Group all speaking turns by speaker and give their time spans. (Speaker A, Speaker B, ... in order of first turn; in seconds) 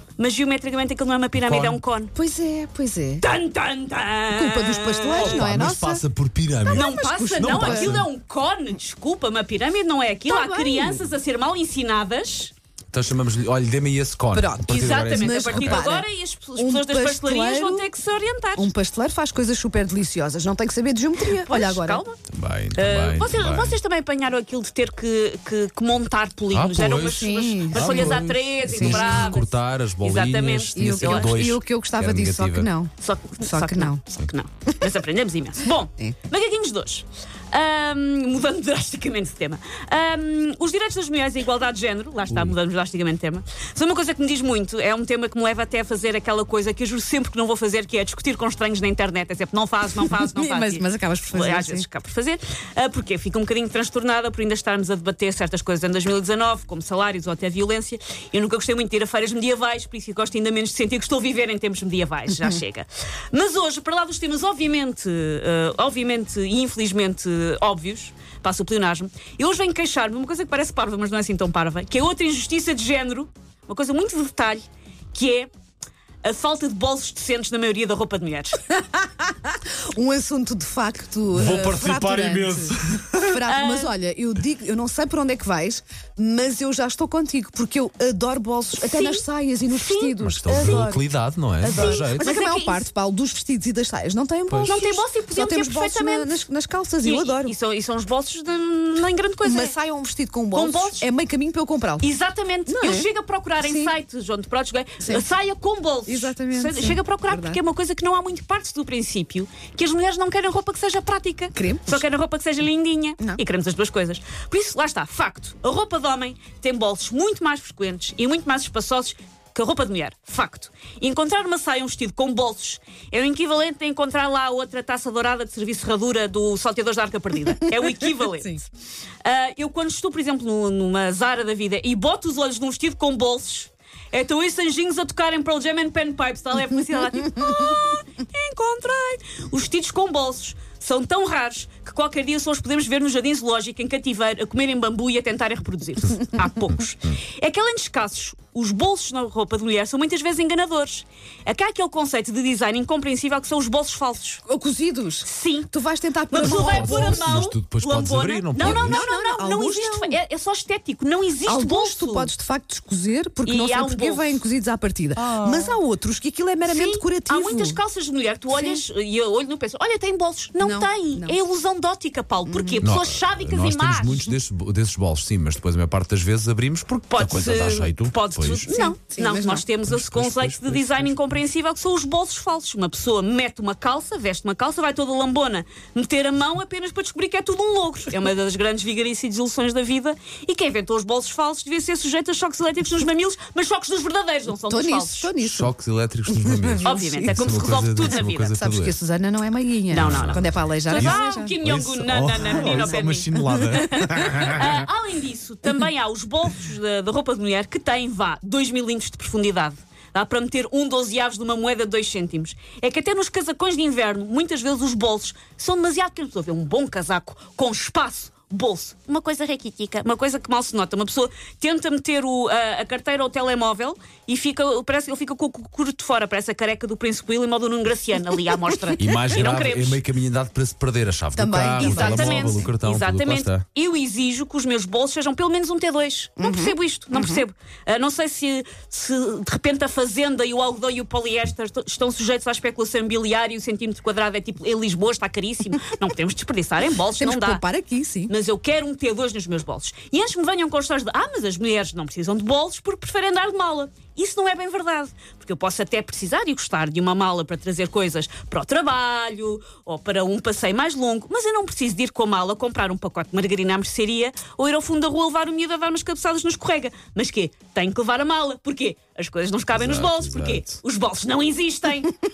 Speaker A: 0.2-2.1, 3.2-5.5, 6.7-12.5, 14.7-18.7, 21.4-22.2, 22.8-31.4, 33.0-75.5, 76.2-78.6, 83.5-83.9, 88.8-90.8, 91.7-92.8, 94.6-96.4, 97.0-99.7, 100.5-101.1, 102.0-128.7, 129.2-154.4, 155.2-155.7, 156.3-162.3, 163.4-164.4, 165.2-165.7, 166.7-174.3, 177.1-195.3, 196.8-198.6, 199.9-230.0, 231.7-247.6, 248.3-272.1
Speaker B: 1.4-1.8, 5.1-8.1, 12.9-15.8, 22.3-23.8, 26.5-32.7, 42.3-42.5, 81.3-83.3, 90.2-92.3, 94.5-94.8, 156.4-159.0, 172.8-178.7, 179.8-181.3, 195.4-199.0, 199.9-204.4, 229.0-233.7, 269.7-270.8
Speaker C: 2.2-3.2, 4.3-6.0, 6.6-8.0, 10.3-11.0, 14.3-17.9, 18.6-22.0, 27.1-29.3, 30.8-34.0, 50.1-51.9, 78.8-91.0, 91.6-97.5, 99.5-102.1, 102.7-103.1, 103.6-103.9, 106.1-107.6, 111.5-112.0, 154.5-157.4, 158.6-160.2, 161.5-167.8, 168.5-168.8, 170.6-171.4, 172.5-172.8, 178.7-179.7, 194.7-195.8, 196.3-201.6, 202.4-204.6, 231.3-232.6, 236.4-237.4, 247.2-248.3